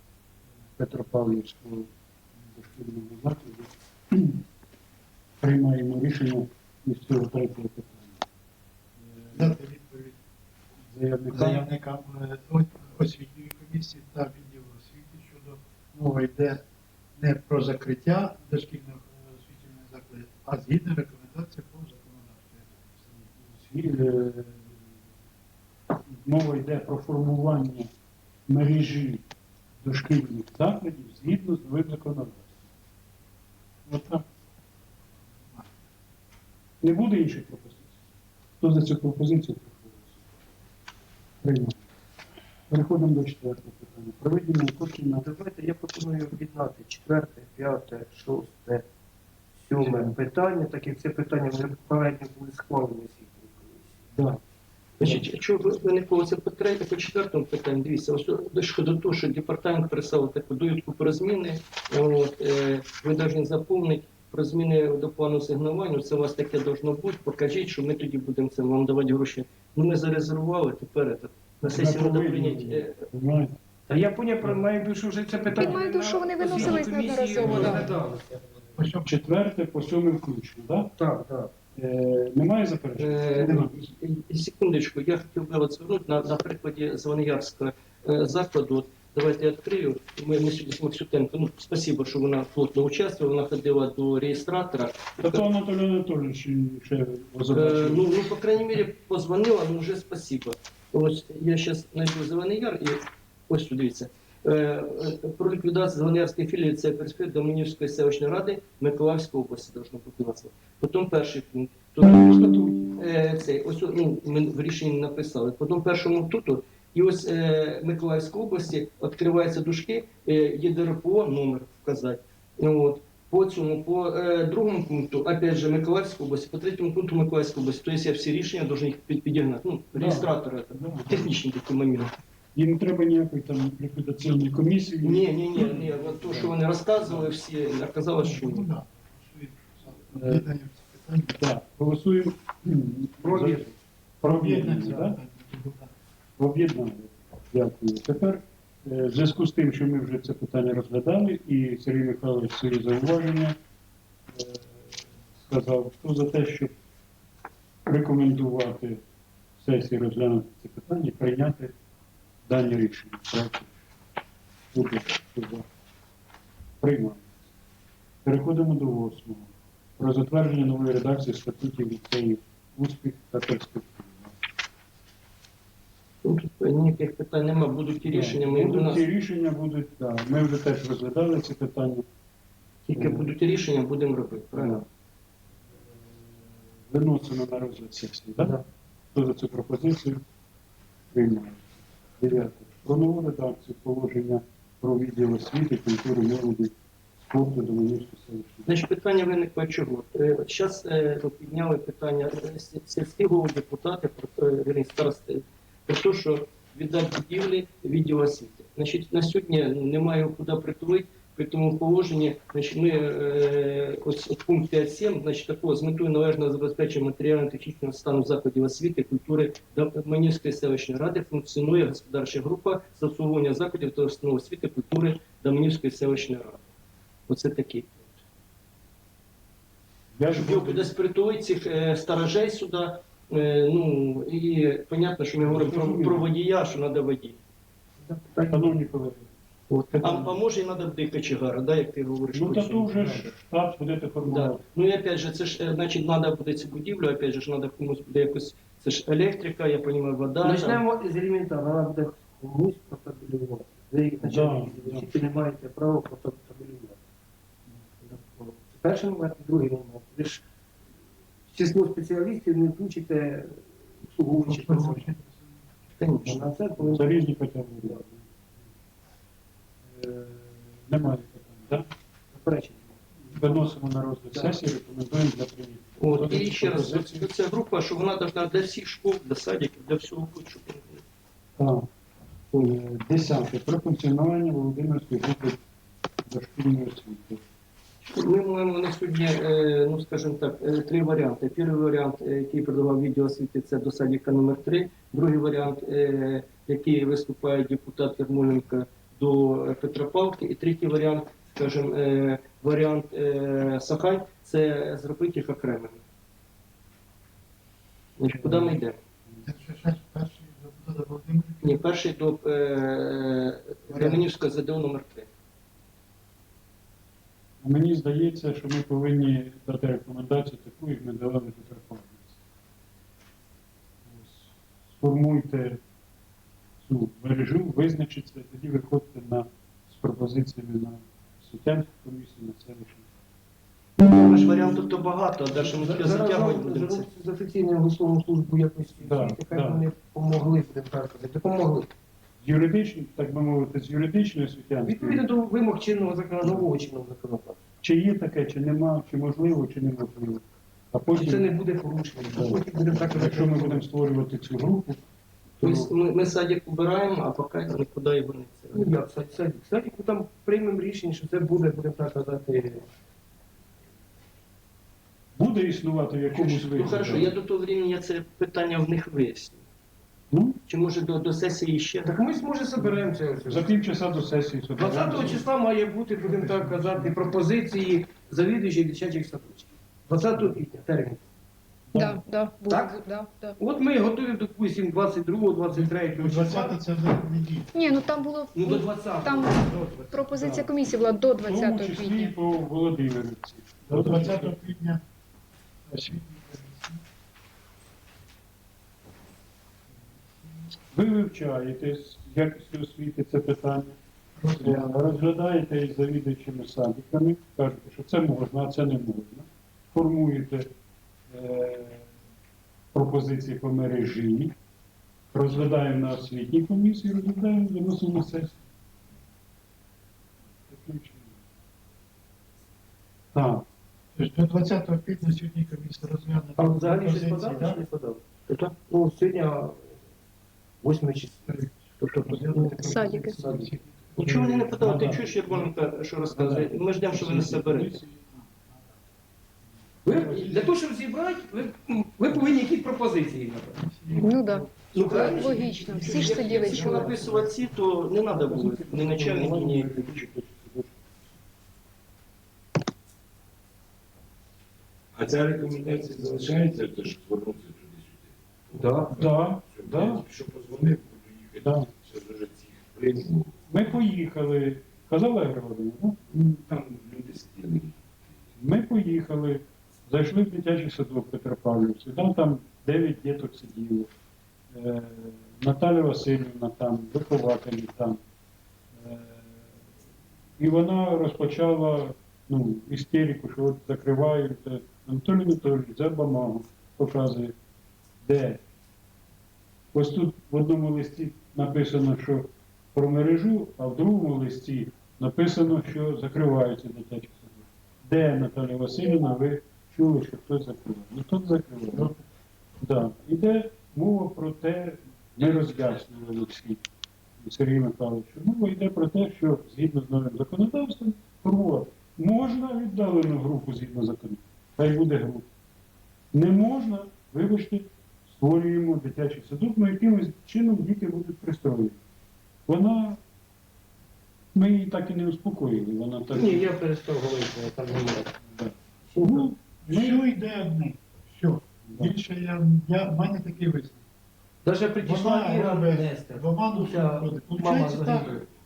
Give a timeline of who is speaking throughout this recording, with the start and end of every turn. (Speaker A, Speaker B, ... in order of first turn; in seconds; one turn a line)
Speaker A: 0.8-1.9
Speaker A: 2.4-4.4
Speaker A: 5.4-8.2
Speaker A: 9.0-9.5
Speaker B: 9.3-10.2
Speaker A: 10.9-11.7
Speaker B: 11.3-16.6
Speaker B: 17.1-23.2
Speaker A: 23.4-24.8
Speaker A: 26.1-27.9
Speaker A: 28.5-29.2
Speaker A: 29.8-32.6
Speaker A: 33.9-34.2
Speaker A: 36.8-37.9
Speaker A: 38.6-40.1
Speaker A: 41.4-41.8
Speaker A: 42.7-45.2
Speaker C: 45.2-48.9
Speaker C: 49.6-54.1
Speaker A: 49.8-50.1
Speaker A: 54.1-54.4
Speaker D: 55.0-73.0
Speaker A: 71.6-73.5
Speaker C: 73.9-78.5
Speaker E: 75.5-77.9
Speaker B: 77.4-77.8
Speaker B: 78.8-79.1
Speaker A: 79.0-80.9
Speaker C: 81.0-81.5
Speaker A: 81.8-83.7
Speaker D: 83.0-95.4
Speaker A: 95.2-98.0
Speaker D: 97.5-132.1
Speaker A: 129.9-131.3
Speaker A: 132.5-136.5
Speaker D: 135.0-138.7
Speaker B: 138.2-141.4
Speaker A: 140.1-140.4
Speaker A: 141.4-145.2
Speaker C: 143.2-143.7
Speaker B: 144.3-145.9
Speaker A: 146.4-153.6
Speaker A: 154.3-156.7
Speaker A: 157.8-159.0
Speaker A: 159.6-161.7
Speaker A: 162.5-163.8
Speaker A: 164.7-165.7
Speaker A: 166.8-167.3
Speaker A: 168.2-174.4
Speaker D: 176.2-179.0
Speaker A: 178.0-182.1
Speaker D: 182.9-184.8
Speaker A: 182.9-183.3
Speaker A: 186.9-188.6
Speaker A: 189.1-190.2
Speaker A: 191.1-191.7
Speaker A: 192.2-198.7
Speaker D: 198.7-226.6
Speaker D: 227.3-228.2
Speaker A: 230.1-230.9
Speaker D: 230.3-237.4
Speaker A: 235.4-236.3
Speaker C: 238.0-238.7
Speaker A: 238.5-239.3
Speaker D: 239.7-243.3
Speaker A: 240.0-240.3
Speaker A: 242.3-244.6
Speaker D: 244.3-250.8
Speaker C: 250.4-257.0
Speaker A: 254.2-255.1
Speaker C: 258.0-260.4
Speaker C: 261.5-265.1
Speaker B: 264.4-265.6
Speaker D: 266.0-266.5
Speaker C: 266.2-267.3
Speaker A: 266.8-268.2
Speaker A: 269.9-271.9
Speaker C: 272.3-273.6
Speaker A: 273.2-277.3
Speaker D: 276.0-281.0
Speaker A: 281.6-281.9
Speaker A: 282.5-285.6
Speaker A: 286.2-287.4
Speaker D: 288.1-306.0
Speaker D: 308.2-309.0
Speaker A: 308.4-308.7
Speaker B: 309.4-311.8
Speaker D: 311.6-315.3
Speaker B: 313.9-314.2
Speaker A: 317.6-322.4
Speaker A: 324.1-325.8
Speaker A: 326.8-333.1
Speaker D: 334.0-337.1
Speaker C: 334.3-335.0
Speaker C: 335.5-341.9
Speaker A: 339.0-339.9
Speaker A: 342.4-345.2
Speaker C: 344.8-347.6
Speaker A: 347.8-351.5
Speaker C: 351.1-353.8
Speaker A: 353.1-355.0
Speaker A: 355.6-355.9
Speaker D: 355.6-358.9
Speaker C: 358.7-362.9
Speaker A: 365.4-367.3
Speaker D: 366.3-369.6
Speaker A: 370.3-370.6
Speaker D: 370.7-372.1
Speaker C: 372.0-373.7
Speaker A: 372.8-375.4
Speaker C: 374.8-381.2
Speaker B: 376.2-377.3
Speaker A: 381.9-382.2
Speaker E: 381.9-383.6
Speaker C: 382.7-383.0
Speaker C: 383.6-386.8
Speaker B: 385.7-388.1
Speaker E: 387.7-392.3
Speaker C: 388.5-390.2
Speaker A: 390.3-390.8
Speaker A: 391.4-394.5
Speaker B: 393.9-395.0
Speaker B: 395.9-397.0
Speaker A: 400.9-404.0
Speaker B: 404.4-405.2
Speaker A: 404.6-410.7
Speaker A: 411.3-412.1
Speaker A: 412.9-414.5
Speaker A: 415.3-418.6
Speaker A: 420.7-421.3
Speaker A: 423.3-423.6
Speaker B: 424.1-427.8
Speaker C: 426.6-429.9
Speaker C: 430.8-433.7
Speaker B: 432.6-433.8
Speaker E: 432.8-433.4
Speaker D: 434.1-438.0
Speaker A: 434.2-435.7
Speaker A: 436.3-438.1
Speaker C: 440.0-444.3
Speaker A: 440.1-440.7
Speaker B: 444.0-446.5
Speaker E: 444.2-447.2
Speaker C: 444.9-447.0
Speaker D: 445.0-445.3
Speaker A: 446.0-447.5
Speaker D: 446.1-450.3
Speaker A: 448.4-451.2
Speaker F: 455.1-463.6
Speaker C: 458.8-459.1
Speaker A: 459.1-460.2
Speaker A: 461.6-461.9
Speaker A: 463.7-466.2
Speaker F: 466.3-468.1
Speaker A: 468.6-474.1
Speaker A: 474.7-478.2
Speaker A: 479.0-479.7
Speaker A: 480.6-487.5
Speaker A: 488.2-488.6
Speaker A: 489.9-502.1
Speaker A: 502.8-506.8
Speaker A: 507.4-515.5
Speaker A: 516.3-522.0
Speaker A: 522.7-523.2
Speaker A: 524.5-526.7
Speaker C: 526.3-528.4
Speaker A: 528.5-530.2
Speaker C: 529.1-529.6
Speaker B: 529.8-534.0
Speaker A: 531.9-532.1
Speaker C: 534.6-538.4
Speaker B: 535.0-538.3